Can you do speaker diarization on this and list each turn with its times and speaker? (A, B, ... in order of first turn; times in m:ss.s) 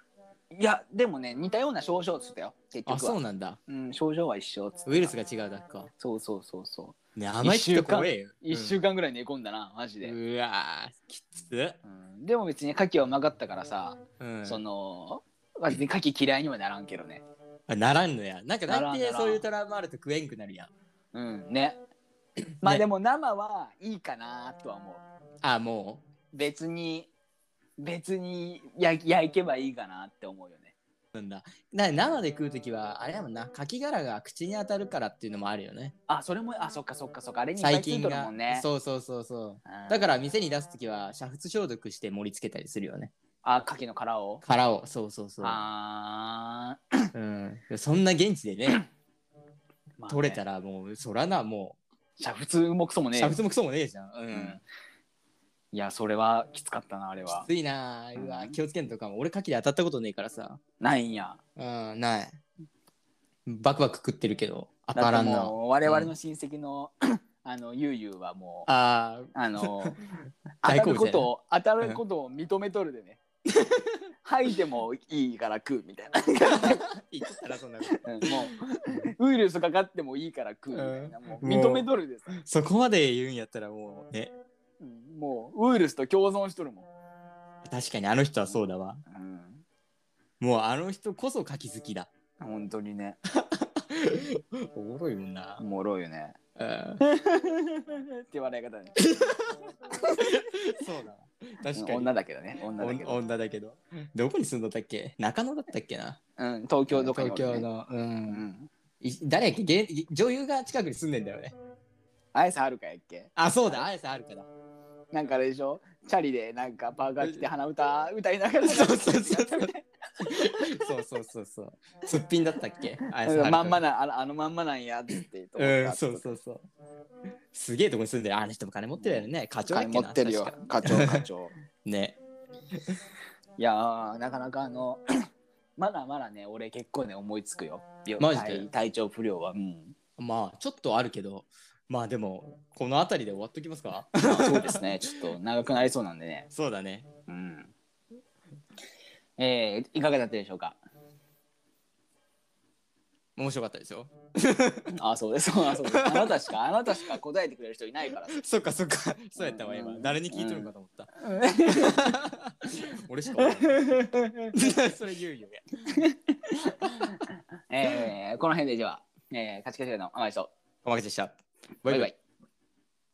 0:00.5-0:05.1 A
0:02.8-0:03.6 B
0:04.8-0:05.9 B
0:06.0-0:10.1 A
0:07.2-0:08.8 B
0:10.0-0:11.8 B
0:11.8-0:17.2 A
0:14.2-0:14.6 B
0:17.7-0:20.7 B
0:18.7-0:19.4 A
0:21.1-0:21.8 A
0:22.6-0:25.0 A
0:25.4-0:26.0 B
0:26.3-0:27.1 A
0:27.8-0:30.7 A
0:31.1-0:35.9 B
0:36.1-0:38.7 A
0:37.6-0:43.1 B
0:39.6-0:40.1 A
0:43.4-0:44.4 A
0:44.4-0:45.6 B
0:45.4-0:47.0 A
0:47.1-0:48.8 B
0:50.0-0:50.4 A
0:50.1-0:51.8 B
0:52.2-0:53.4 A
0:53.2-0:54.6 B
0:54.3-0:54.6 A
0:55.7-0:57.5 A
0:57.3-1:00.6 B
0:58.2-0:58.6 A
1:00.8-1:01.4 A
1:01.6-1:02.4 B
1:03.4-1:06.1 B
1:05.0-1:08.7 A
1:08.7-1:11.3 B
1:09.3-1:10.0 A
1:10.6-1:13.2 A
1:13.5-1:14.0 B
1:14.2-1:16.8 A
1:16.5-1:18.5 B
1:18.0-1:22.4 A
1:20.7-1:24.3 B
1:24.8-1:26.9 A
1:27.6-1:29.0 B
1:28.5-1:29.6 A
1:30.4-1:32.1 B
1:32.4-1:33.2 A
1:33.3-1:35.6 B
1:35.6-1:36.4 A
1:36.6-1:37.0 B
1:37.0-1:39.0 A
1:39.0-1:39.4 B
1:40.2-1:42.1 B
1:41.8-1:43.2 A
1:42.8-1:46.2 B
1:46.4-1:47.7 A
1:46.9-1:48.4 B
1:48.3-1:48.7 A
1:49.0-1:51.5 B
1:52.3-1:53.8 A
1:53.4-1:54.5 B
1:55.1-2:00.6 A
1:57.2-1:57.4 B
1:58.7-1:59.7 B
2:00.2-2:03.8 B
2:03.2-2:06.3 A
2:05.6-2:06.6 B
2:07.5-2:11.2 B
2:09.0-2:11.5 A
2:11.8-2:12.2 B
2:13.6-2:15.0 A
2:15.8-2:19.9 A
2:18.2-2:18.6 B
2:20.2-2:24.8 B
2:24.2-2:26.5 A
2:26.5-2:27.1 B
2:27.3-2:27.7 A
2:29.4-2:30.8 A
2:33.4-2:34.9 B
2:35.0-2:38.4 A
2:35.9-2:36.4 B
2:38.3-2:41.1 B
2:39.4-2:42.0 A
2:41.8-2:42.5 B
2:43.0-2:43.8 B
2:43.4-2:44.5 A
2:44.5-2:46.0 B
2:46.0-2:47.2 A
2:47.7-2:50.5 A
2:50.8-2:52.1 B
2:51.9-2:52.2 A